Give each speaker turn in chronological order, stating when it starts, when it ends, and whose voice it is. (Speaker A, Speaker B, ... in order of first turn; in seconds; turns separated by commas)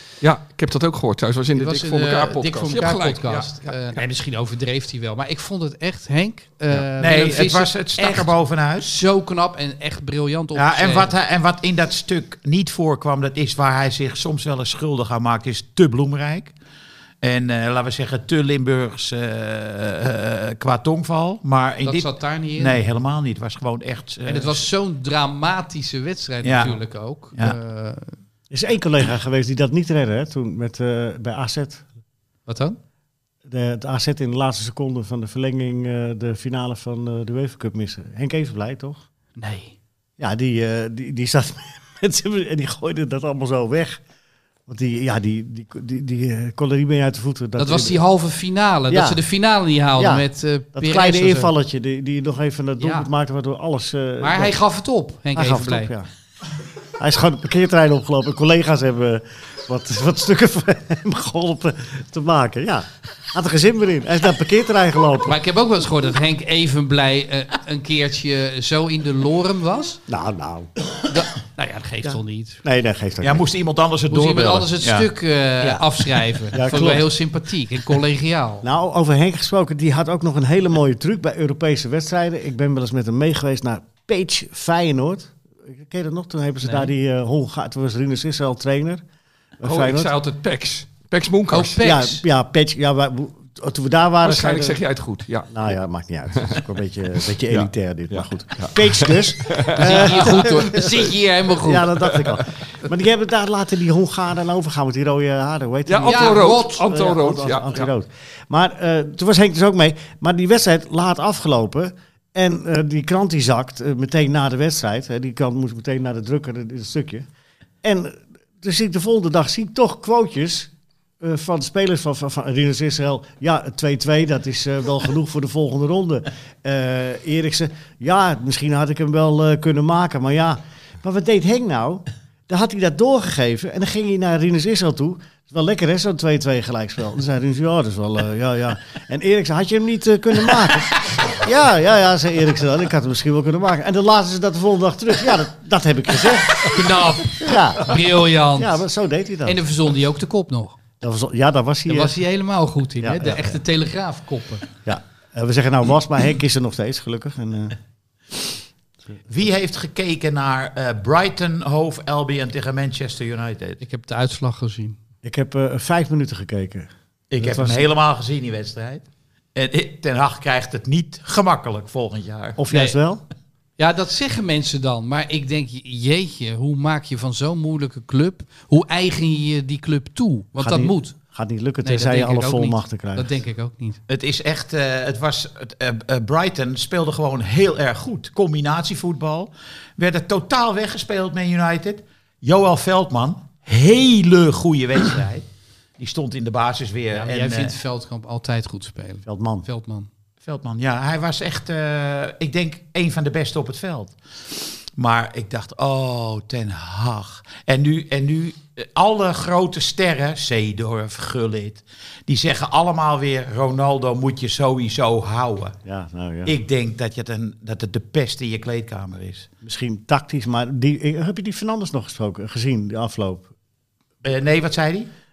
Speaker A: 0.2-4.0, Speaker B: 1.6-11.1, Speaker C: 7.0-8.9, Speaker C: 10.5-16.5, Speaker C: 17.2-24.6, Speaker B: 21.8-22.8, Speaker B: 24.2-28.2, Speaker C: 26.4-26.8, Speaker D: 28.5-31.8, Speaker B: 32.5-32.8, Speaker D: 33.5-39.0, Speaker B: 39.4-39.7, Speaker D: 40.2-44.0, Speaker D: 44.7-48.0, Speaker B: 47.6-51.5, Speaker D: 48.9-49.2, Speaker D: 50.0-54.6, Speaker B: 52.8-53.1, Speaker B: 54.2-55.9, Speaker D: 55.3-56.1, Speaker D: 57.0-65.4, Speaker B: 65.3-70.0, Speaker D: 70.1-70.7, Speaker B: 71.1-72.6, Speaker D: 72.0-73.4, Speaker C: 73.2-75.1, Speaker B: 74.1-78.6, Speaker C: 75.6-76.4, Speaker D: 76.5-77.1, Speaker D: 78.6-89.0, Speaker B: 86.6-86.9, Speaker D: 89.6-90.1, Speaker A: 89.6-91.8, Speaker B: 91.5-92.2, Speaker D: 91.8-94.8, Speaker A: 94.2-95.8, Speaker D: 95.5-101.0, Speaker A: 96.3-96.6, Speaker A: 97.5-101.1, Speaker B: 99.8-102.0, Speaker D: 101.6-117.3, Speaker A: 102.1-102.5, Speaker A: 105.8-107.9, Speaker B: 106.0-106.8, Speaker D: 117.8-148.0, Speaker B: 146.7-148.8, Speaker D: 148.6-149.6, Speaker B: 149.4-150.8, Speaker D: 151.0-152.2, Speaker B: 151.9-154.6, Speaker D: 153.0-153.6, Speaker D: 154.8-157.8, Speaker C: 159.3-163.8, Speaker B: 163.8-165.0, Speaker D: 165.2-167.9, Speaker C: 167.3-172.6, Speaker D: 172.6-173.2, Speaker B: 172.7-173.0, Speaker B: 173.8-181.2, Speaker D: 180.6-183.4, Speaker B: 181.8-184.0, Speaker C: 184.1-195.5, Speaker C: 196.0-197.8, Speaker B: 197.1-200.1, Speaker D: 199.2-199.7, Speaker C: 200.4-204.2, Speaker C: 204.9-215.8, Speaker D: 215.8-216.5, Speaker C: 216.4-219.5, Speaker D: 219.6-223.5, Speaker C: 224.2-225.1